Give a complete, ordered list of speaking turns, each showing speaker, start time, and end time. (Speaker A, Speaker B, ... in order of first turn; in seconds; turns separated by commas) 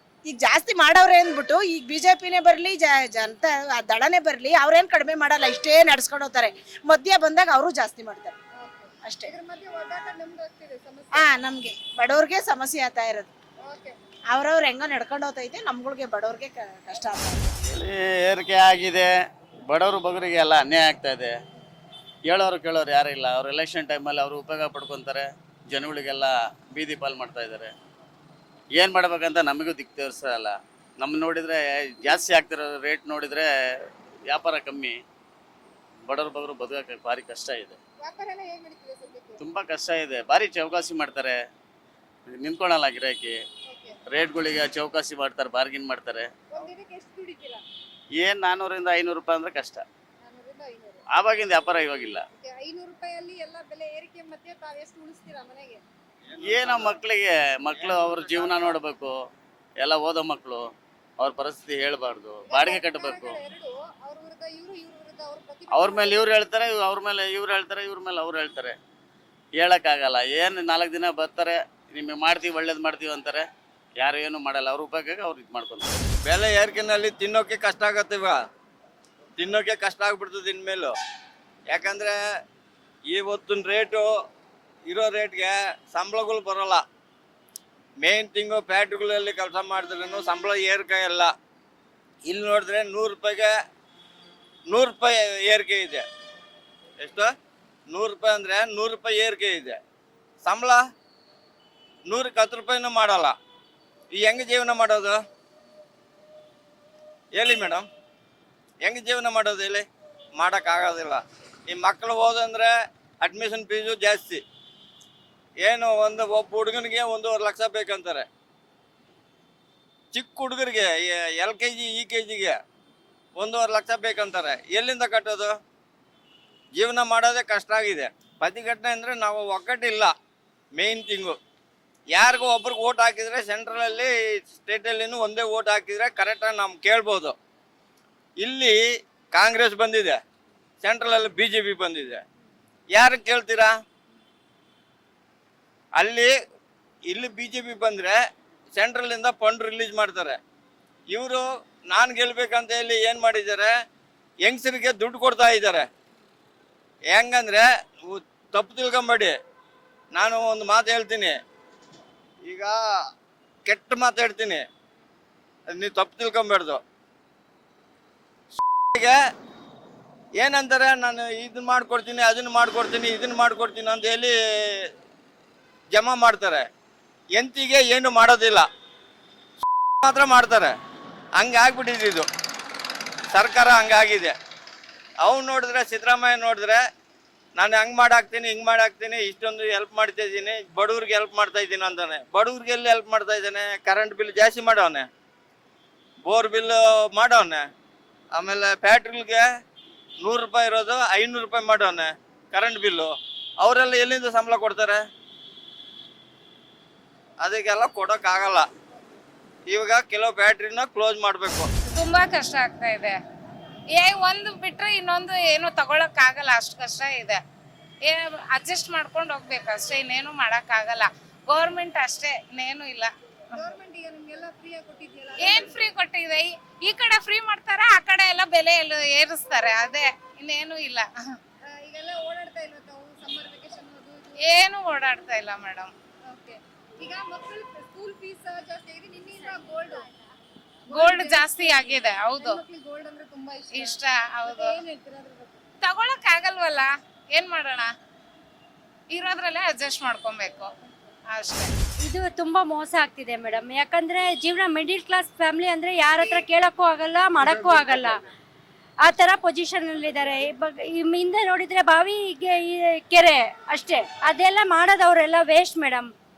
Speaker A: 0.3-8.3, Speaker B: 8.6-11.3, Speaker A: 9.1-9.3, Speaker A: 11.2-13.3, Speaker B: 13.6-13.9, Speaker A: 14.3-17.6, Speaker C: 17.7-19.1, Speaker C: 19.7-21.3, Speaker C: 22.3-27.7, Speaker C: 28.8-35.0, Speaker C: 36.1-37.8, Speaker B: 38.0-39.4, Speaker C: 39.4-41.4, Speaker C: 42.3-43.4, Speaker B: 43.7-44.0, Speaker C: 44.1-46.3, Speaker B: 46.5-47.6, Speaker C: 48.2-49.8, Speaker B: 50.2-51.0, Speaker C: 51.1-52.2, Speaker B: 52.4-55.8, Speaker C: 56.4-59.2, Speaker D: 56.6-56.9, Speaker D: 57.9-58.5, Speaker C: 59.8-60.7, Speaker C: 61.2-63.4, Speaker B: 62.5-66.2, Speaker C: 65.7-68.8, Speaker C: 69.6-73.5, Speaker C: 74.0-76.1, Speaker D: 76.3-78.4, Speaker D: 79.4-80.9, Speaker D: 81.7-82.2, Speaker D: 83.1-84.1, Speaker D: 84.9-86.8, Speaker D: 88.0-91.3, Speaker D: 92.3-93.5, Speaker D: 94.7-96.0, Speaker D: 97.0-97.3, Speaker D: 97.9-99.8, Speaker D: 100.4-100.8, Speaker D: 102.1-103.3, Speaker D: 104.1-105.2, Speaker D: 107.4-107.9, Speaker D: 108.8-109.9, Speaker D: 110.4-114.4, Speaker D: 115.6-118.3, Speaker D: 120.1-122.6, Speaker D: 123.4-125.5, Speaker D: 126.8-130.1, Speaker D: 130.8-131.4, Speaker D: 132.1-137.3, Speaker D: 138.4-138.8, Speaker D: 139.3-140.2, Speaker D: 140.8-142.2, Speaker D: 142.9-143.7, Speaker D: 146.0-146.3, Speaker D: 147.1-148.2, Speaker D: 148.8-150.4, Speaker D: 151.1-153.7, Speaker D: 154.4-155.9, Speaker D: 157.1-159.3, Speaker D: 160.1-161.4, Speaker D: 163.7-164.6, Speaker D: 165.7-166.8, Speaker D: 170.4-174.9, Speaker D: 175.9-176.7, Speaker D: 177.4-178.7, Speaker D: 180.0-180.7, Speaker D: 181.4-182.3, Speaker D: 183.3-184.3, Speaker D: 185.2-186.8, Speaker D: 187.6-195.1, Speaker D: 196.2-197.6, Speaker D: 198.3-199.4, Speaker D: 200.2-205.0, Speaker D: 207.4-208.7, Speaker D: 209.7-211.7, Speaker E: 211.9-213.2, Speaker E: 214.0-217.4, Speaker E: 218.1-223.1, Speaker B: 223.5-225.8, Speaker E: 225.4-231.1, Speaker B: 231.7-234.6, Speaker E: 234.4-235.9, Speaker B: 236.3-240.1, Speaker E: 240.9-242.6, Speaker B: 240.9-245.6, Speaker E: 243.7-244.8, Speaker E: 245.8-247.9, Speaker E: 249.1-250.7, Speaker E: 251.3-251.8, Speaker F: 252.0-258.2, Speaker F: 259.0-266.1